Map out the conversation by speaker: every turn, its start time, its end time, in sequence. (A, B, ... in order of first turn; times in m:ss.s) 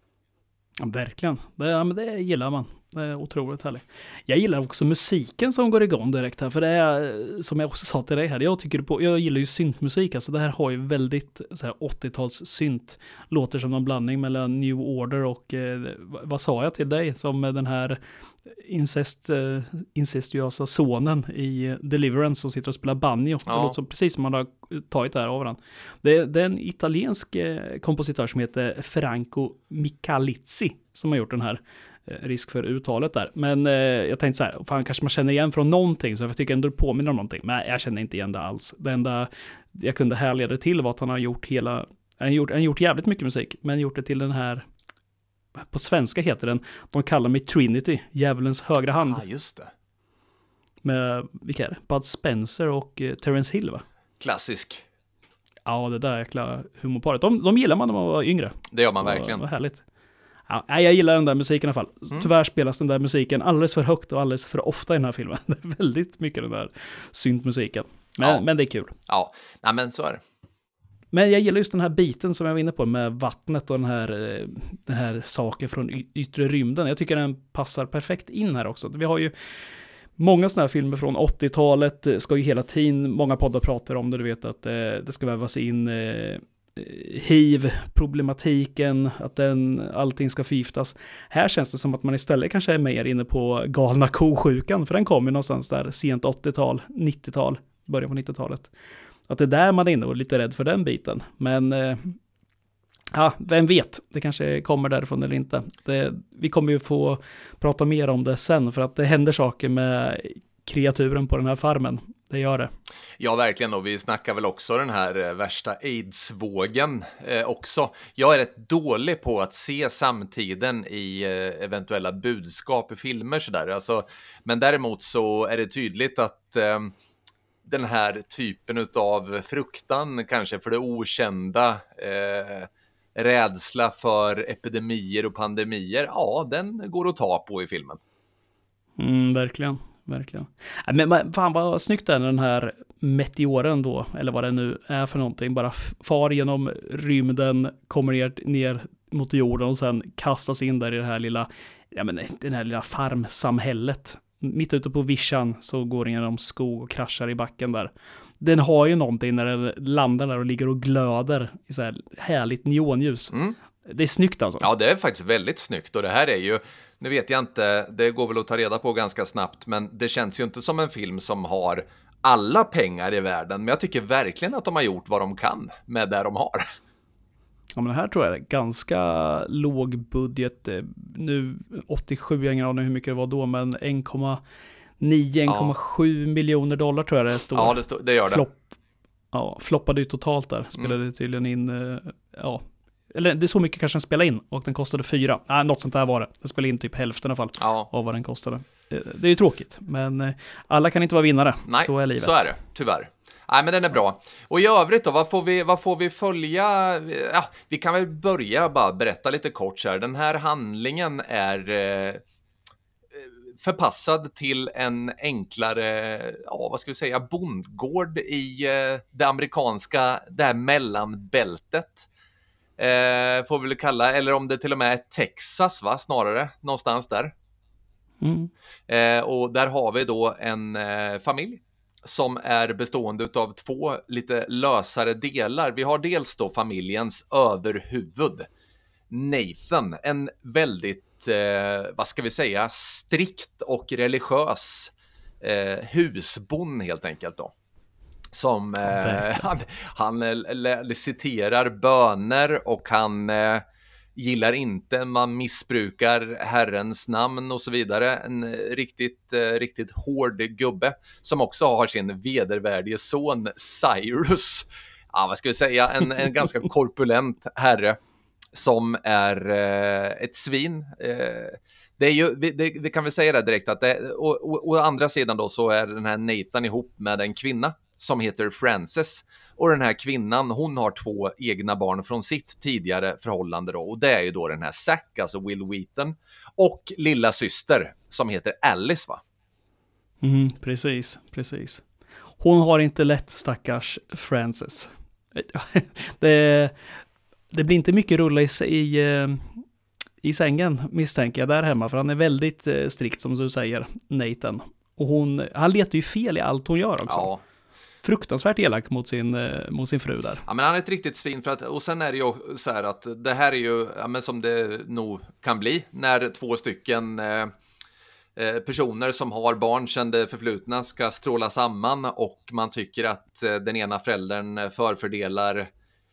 0:00.8-0:44.7 A
0:23.4-0:23.7 B
0:45.7-0:49.2 A
0:49.0-0:49.7 B
0:50.8-0:53.8 A
0:54.2-0:54.8 B
0:55.7-0:59.8 A
0:58.7-0:59.4 B
1:00.5-1:09.0 A
1:09.1-1:10.2 B
1:11.1-1:19.3 A
1:20.2-1:38.7 A
1:39.3-1:42.2 A
1:43.1-1:52.7 A
1:53.2-2:06.9 B
2:07.6-2:18.0 B
2:19.0-2:44.7 A
2:43.3-2:43.6 B
2:44.6-2:56.6 B
2:57.7-3:04.4 A
3:05.0-3:08.7 A
3:05.5-3:05.7 B
3:07.5-3:08.4 B
3:09.3-3:22.5 A
3:17.6-3:17.9 B
3:21.7-3:32.2 B
3:33.1-3:42.1 B
3:42.8-3:47.3 B
3:48.2-3:48.5 A
3:48.9-3:58.5 B
3:59.1-4:07.5 B
4:08.3-4:13.6 B
4:08.8-4:09.3 A
4:14.2-4:28.0 B
4:28.5-4:49.2 B
4:50.2-4:51.8 A
4:52.4-4:56.8 A
4:57.5-4:59.6 A
5:00.2-5:07.3 A
5:07.1-5:07.4 B
5:08.0-5:10.4 A
5:10.4-5:17.5 B
5:18.4-5:25.7 B